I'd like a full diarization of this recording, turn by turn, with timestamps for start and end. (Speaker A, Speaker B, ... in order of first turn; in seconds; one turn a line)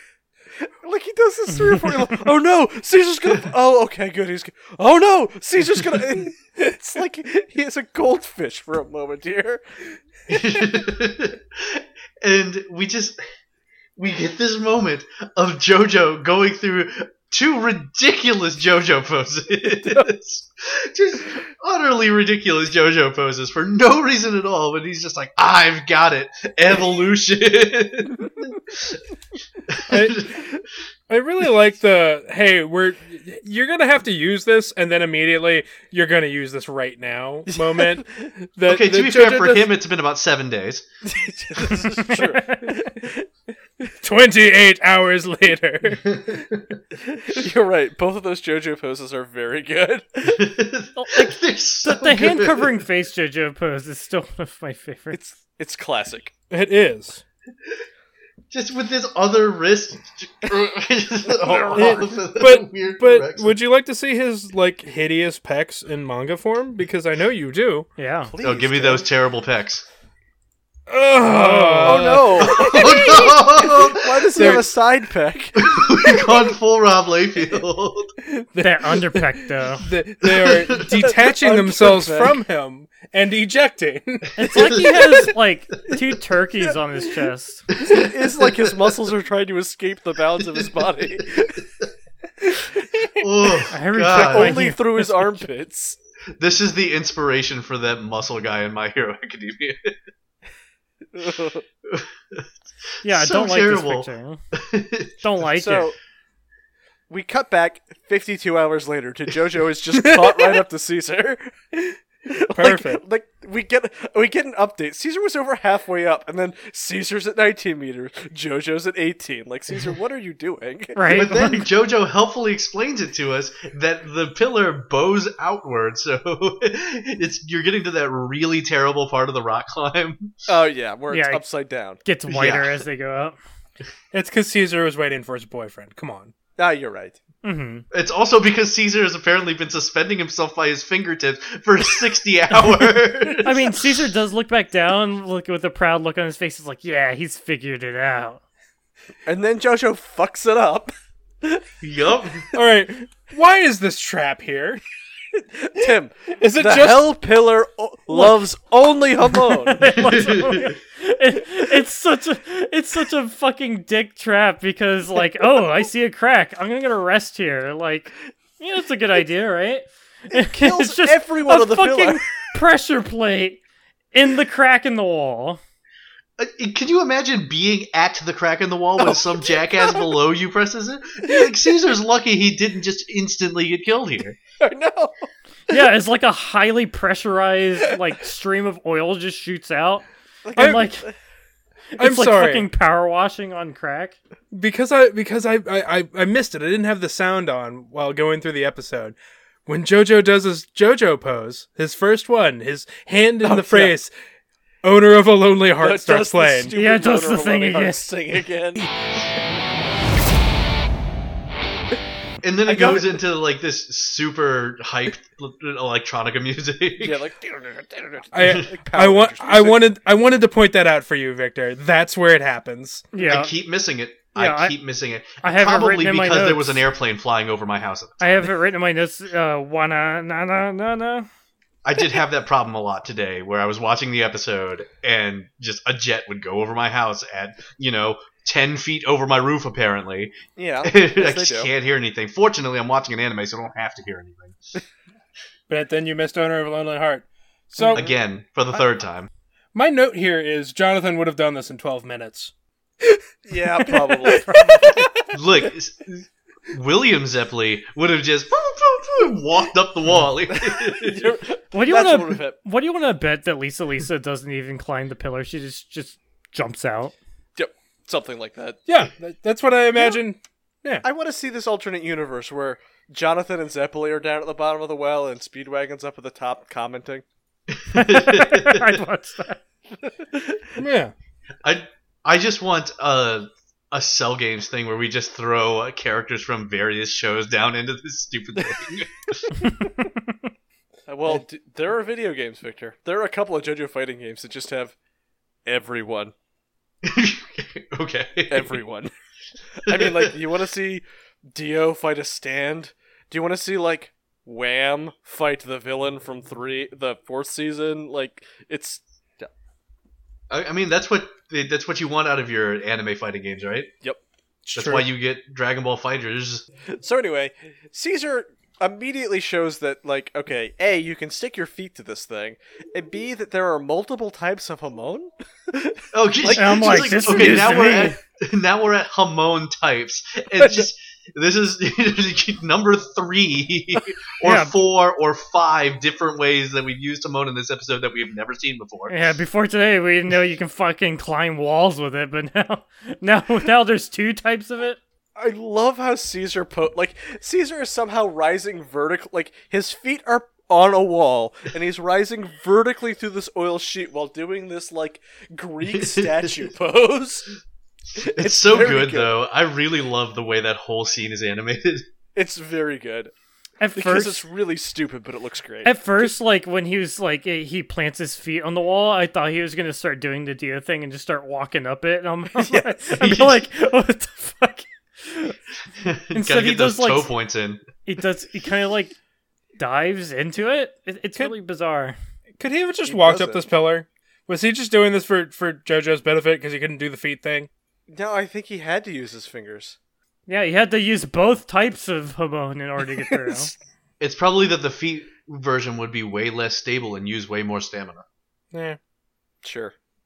Speaker A: 0.6-9.6
Speaker B: 1.5-2.2
Speaker C: 10.3-13.2
Speaker C: 14.0-29.0
Speaker C: 29.7-30.5
Speaker D: 29.9-30.4
Speaker D: 31.1-39.8
Speaker A: 37.5-38.2
Speaker C: 38.6-40.9
Speaker A: 41.1-43.3
Speaker B: 42.1-42.7
Speaker D: 44.0-46.4
Speaker C: 46.0-46.6
Speaker A: 47.1-50.5
Speaker C: 50.3-52.8
Speaker B: 51.0-55.2
Speaker A: 55.1-56.3
Speaker D: 56.5-57.2
Speaker C: 58.5-63.5
Speaker A: 61.7-62.0
Speaker D: 61.7-67.9
Speaker B: 68.0-68.3
Speaker A: 68.3-69.1
Speaker C: 68.4-69.8
Speaker D: 70.9-73.2
Speaker A: 71.3-76.2
Speaker C: 72.5-74.6
Speaker D: 74.3-74.7
Speaker C: 75.6-78.1
Speaker D: 78.5-84.3
Speaker B: 78.6-79.9
Speaker C: 80.2-81.2
Speaker A: 81.0-82.4
Speaker B: 84.4-87.7
Speaker A: 84.7-85.3
Speaker C: 87.8-88.9
Speaker A: 87.8-91.7
Speaker A: 92.4-92.9
Speaker C: 93.2-94.7
Speaker B: 93.7-95.4
Speaker A: 94.1-96.0
Speaker C: 96.4-100.0
Speaker A: 101.1-101.6
Speaker C: 101.8-102.5
Speaker C: 103.0-105.2
Speaker B: 103.0-104.4
Speaker B: 105.2-105.9
Speaker A: 105.6-106.0
Speaker A: 107.1-121.7
Speaker D: 110.1-110.6
Speaker D: 112.5-113.0
Speaker B: 121.0-121.6
Speaker C: 121.1-130.3
Speaker A: 130.5-132.0
Speaker B: 131.1-131.4
Speaker B: 132.0-133.4
Speaker C: 132.3-132.8
Speaker D: 134.1-136.3
Speaker A: 136.6-137.2
Speaker B: 137.4-137.8
Speaker C: 137.9-143.8
Speaker B: 143.4-148.4
Speaker A: 149.3-151.7
Speaker C: 151.8-152.5
Speaker D: 152.5-154.8
Speaker A: 155.6-159.9
Speaker D: 156.4-157.1
Speaker B: 158.1-158.4
Speaker B: 159.6-173.6
Speaker C: 159.9-160.8
Speaker A: 170.3-172.2
Speaker B: 174.1-175.6
Speaker C: 176.4-184.4
Speaker A: 179.8-180.1
Speaker A: 184.6-185.8
Speaker B: 185.7-191.1
Speaker A: 190.4-191.1
Speaker D: 190.6-190.8
Speaker B: 192.0-194.2
Speaker D: 192.0-192.7
Speaker D: 194.5-199.2
Speaker D: 199.7-204.1
Speaker A: 203.4-204.0
Speaker D: 204.8-206.7
Speaker A: 205.8-208.9
Speaker B: 206.7-208.1
Speaker C: 212.4-217.2
Speaker A: 212.7-213.1
Speaker A: 217.0-219.8
Speaker D: 218.3-223.1
Speaker B: 223.1-223.5
Speaker C: 223.2-228.5
Speaker B: 224.4-224.8
Speaker B: 225.4-226.8
Speaker B: 228.2-231.3
Speaker C: 231.8-244.6
Speaker A: 240.6-241.7
Speaker D: 245.7-248.0
Speaker A: 247.8-248.2
Speaker C: 247.9-249.3
Speaker D: 249.7-252.5
Speaker A: 253.5-255.2
Speaker D: 253.9-254.1
Speaker B: 254.3-254.9
Speaker C: 255.3-261.4
Speaker A: 260.5-262.6
Speaker B: 261.7-267.1
Speaker A: 267.6-268.8
Speaker D: 268.9-271.0
Speaker A: 271.0-277.2
Speaker C: 277.7-279.0
Speaker B: 277.9-279.6
Speaker A: 280.0-280.7
Speaker D: 280.8-281.1
Speaker C: 281.6-289.4
Speaker B: 289.6-290.2
Speaker A: 291.1-294.9
Speaker A: 295.7-296.3
Speaker C: 297.0-298.8
Speaker A: 298.5-299.1
Speaker A: 299.8-309.5
Speaker C: 299.9-300.4
Speaker C: 310.5-313.9
Speaker D: 314.7-315.1
Speaker C: 314.8-316.6
Speaker A: 316.9-328.1
Speaker C: 326.1-339.2
Speaker B: 326.6-328.2
Speaker B: 334.4-334.8
Speaker B: 339.1-345.0
Speaker A: 345.4-357.5
Speaker C: 355.9-356.7
Speaker A: 358.2-359.3
Speaker C: 358.2-362.1
Speaker A: 362.4-363.3
Speaker B: 363.8-364.4
Speaker A: 363.9-366.3
Speaker B: 365.8-375.6
Speaker A: 372.6-373.0
Speaker C: 373.2-373.6
Speaker C: 376.0-377.8
Speaker B: 376.3-377.3
Speaker B: 378.1-379.2
Speaker B: 379.8-382.2
Speaker D: 382.6-387.7
Speaker A: 383.1-383.6
Speaker A: 388.1-390.0
Speaker B: 390.5-393.7
Speaker A: 393.5-393.7
Speaker C: 394.2-398.2
Speaker D: 398.7-399.0
Speaker A: 399.6-399.9